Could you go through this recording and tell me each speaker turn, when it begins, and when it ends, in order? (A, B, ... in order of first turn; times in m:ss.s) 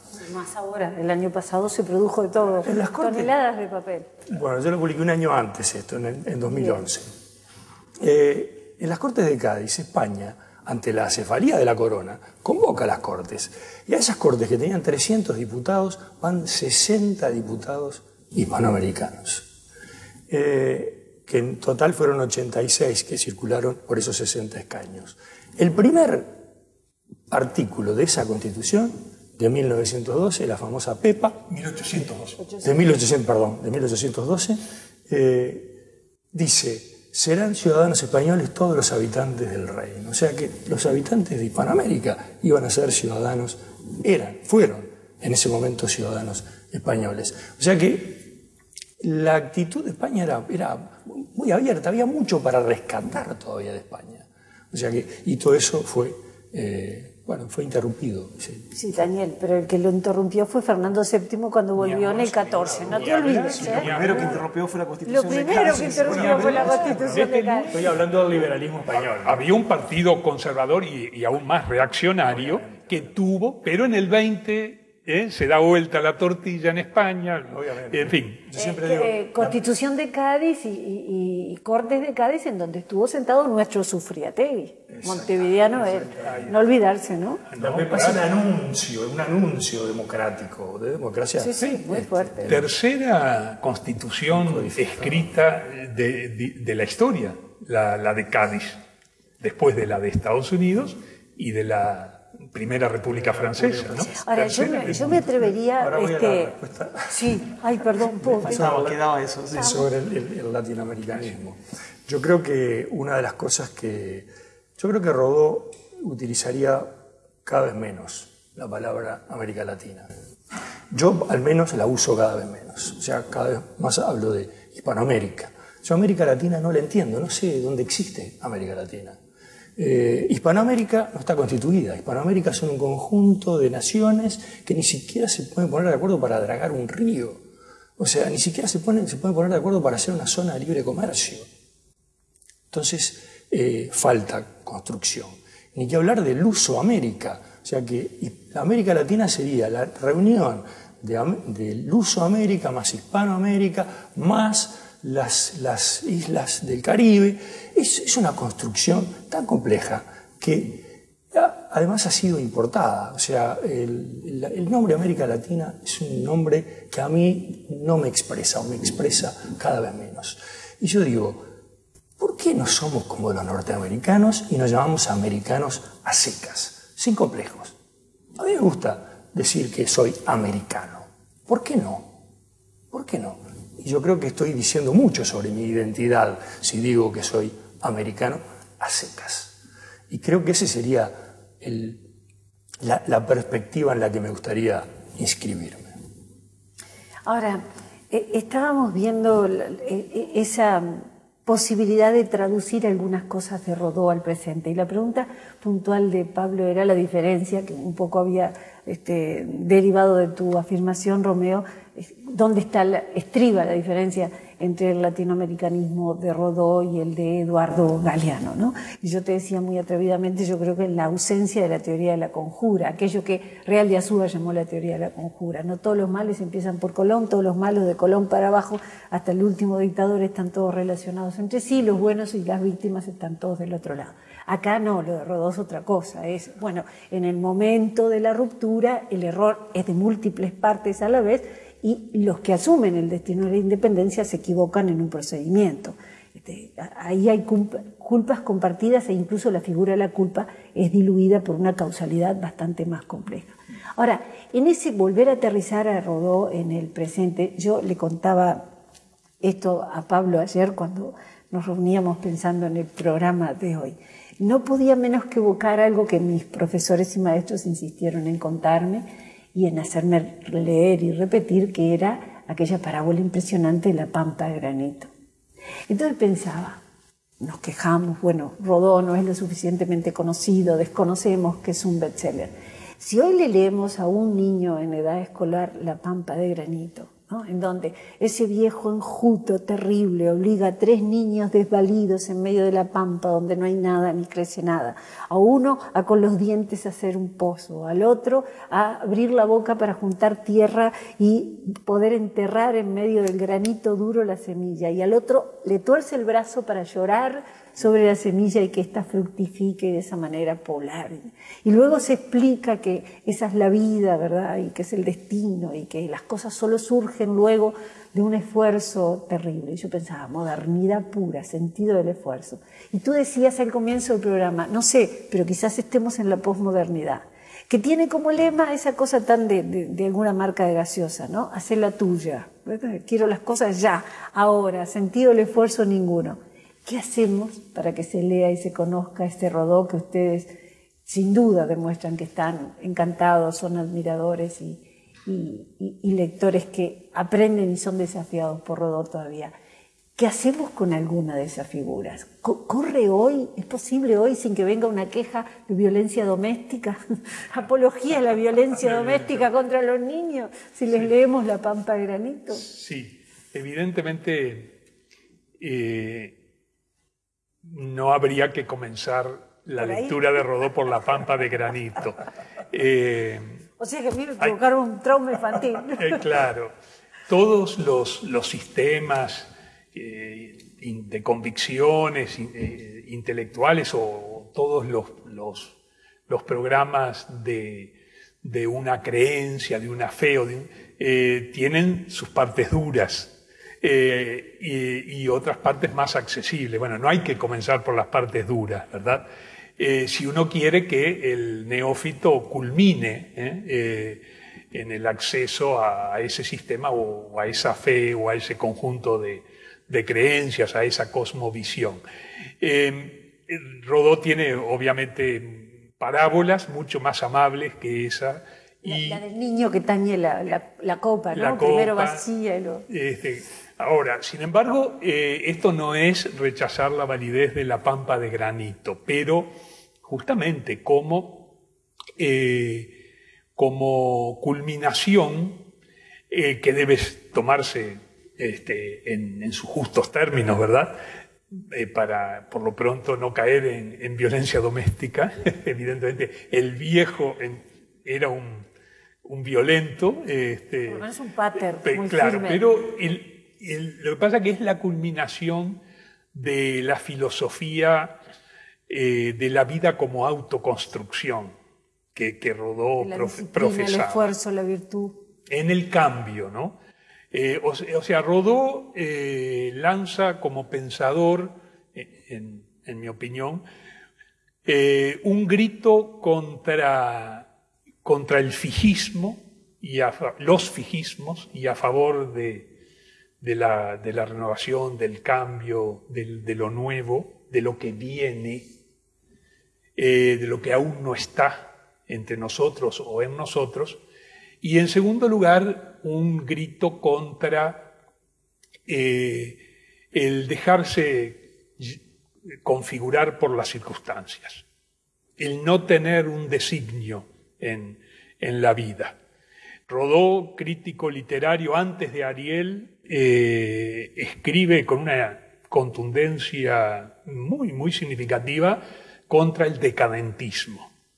0:00.2-0:04.2 A
0:02.6-0:03.3 B
0:04.3-0:07.0 B
0:06.5-0:06.9 A
0:08.0-0:19.5 B
0:20.3-0:26.3 B
0:27.3-0:31.5 B
0:31.5-0:32.6 C
0:32.5-0:35.8 B
0:36.3-0:48.4 B
0:49.0-0:58.7 B
0:58.7-1:03.9 A
1:01.8-1:04.4 C
1:02.6-1:04.3 B
1:03.2-1:07.2 D
1:05.0-1:07.8 A
1:05.5-1:08.0 C
1:06.0-1:09.4 B
1:09.2-1:18.4 C
1:12.3-1:13.1 B
1:17.5-1:19.6 B
1:18.5-1:27.4 A
1:24.9-1:26.5 B
1:26.2-1:26.5 C
1:27.5-1:28.2 C
1:27.6-1:32.7 B
1:31.4-1:32.5 A
1:32.4-1:38.8 C
1:34.3-1:35.3 B
1:39.4-1:45.2 C
1:43.2-1:49.0 B
1:44.2-1:46.5 A
1:47.1-1:48.7 A
1:48.4-1:49.8 D
1:49.5-1:54.3 B
1:49.5-1:49.9 A
1:54.8-1:56.9 B
1:57.4-2:00.1 B
2:00.9-2:09.2 B
2:09.8-2:17.4 B
2:18.0-2:21.5 B
2:22.7-2:51.5 B
2:52.2-2:57.8 B
2:58.4-3:02.1 B
3:02.9-3:09.6 B
3:10.1-3:12.0 B
3:12.8-3:15.9 B
3:17.2-4:18.7 A
4:19.4-4:35.1 A
4:35.9-4:36.8 A
4:37.4-5:40.5 A
5:41.0-5:49.5 A
5:50.2-6:02.6 A
5:58.7-5:59.5 C
6:02.6-6:04.8 C
6:05.6-6:06.4 C
6:07.6-6:12.2 C
6:09.8-6:10.4 A
6:12.7-6:13.6 C
6:13.8-6:16.2 A
6:16.0-6:16.7 C
6:17.3-6:25.8 C
6:26.3-6:39.2 C
6:39.8-6:52.0 C
6:52.6-6:59.2 C
6:58.8-7:02.8 A
7:01.3-7:02.3 C
7:02.9-7:09.5 C
7:10.0-7:11.5 C
7:12.2-7:13.0 C
7:13.6-7:15.6 C
7:16.3-7:21.0 C
7:21.5-7:28.6 C
7:29.2-7:31.1 C
7:30.8-7:32.6 A
7:31.7-7:35.8 C
7:36.3-7:38.2 C
7:38.9-7:41.5 C
7:42.1-7:44.3 C
7:43.0-7:45.2 A
7:45.5-7:46.8 C
7:47.3-7:53.6 C
7:54.6-7:57.5 C
7:58.0-8:02.7 C
8:03.4-8:08.8 C
8:10.0-8:14.0 C
8:14.6-8:17.9 C
8:18.9-8:19.6 C
8:20.1-8:22.0 C
8:22.6-8:24.6 C
8:25.4-8:29.2 C
8:29.9-8:40.9 C